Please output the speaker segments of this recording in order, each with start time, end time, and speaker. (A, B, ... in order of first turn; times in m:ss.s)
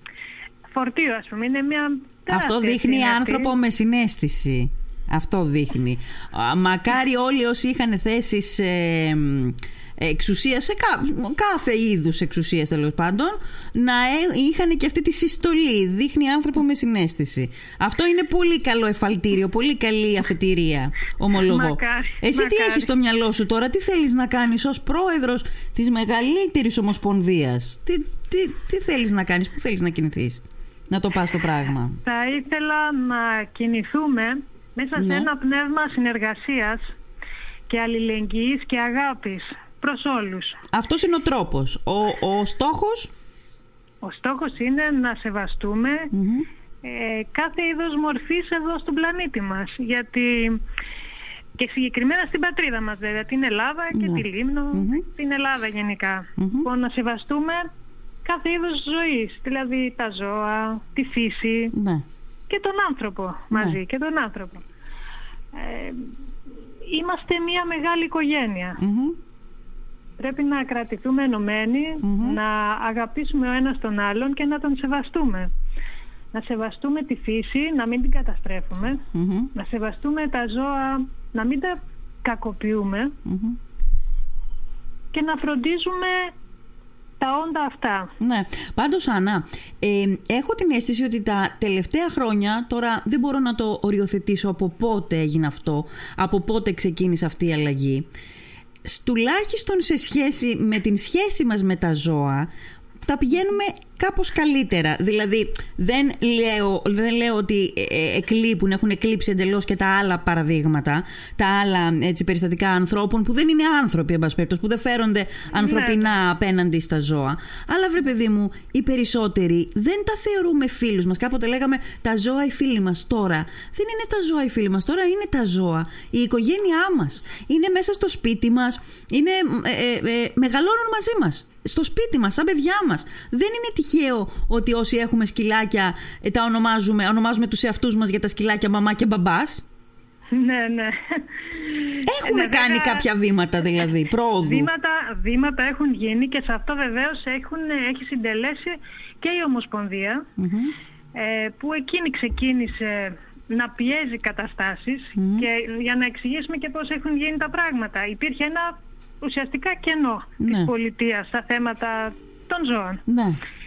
0:00.7-0:03.5 A
0:02.3-0:32.0 B
0:21.4-0:22.9 A
0:32.0-0:36.9 A
0:35.0-0:35.3 B
0:37.7-0:40.6 A
0:40.7-0:43.1 B
0:44.0-0:46.1 A
0:46.1-0:46.5 B
0:46.8-0:50.6 A
0:51.6-0:57.7 A
0:53.9-0:55.0 B
0:56.4-0:56.7 B
0:58.2-1:01.7 A
1:01.7-1:02.0 B
1:02.5-1:04.6 A
1:05.5-1:06.1 A
1:06.9-1:08.8 A
1:08.8-1:09.2 B
1:10.2-1:15.5 A
1:12.0-1:12.4 B
1:16.3-1:23.2 A
1:19.1-1:19.5 B
1:23.2-1:23.6 B
1:25.1-1:26.3 A
1:27.2-1:28.1 A
1:28.2-1:38.1 B
1:38.8-1:42.5 B
1:43.0-2:19.6 B
1:55.6-1:56.1 A
2:20.3-2:23.1 A
2:22.1-2:24.7 B
2:24.4-2:30.2 A
2:30.4-2:30.7 B
2:31.2-2:43.0 A
2:35.2-2:35.5 B
2:40.4-2:40.7 B
2:43.1-2:43.4 B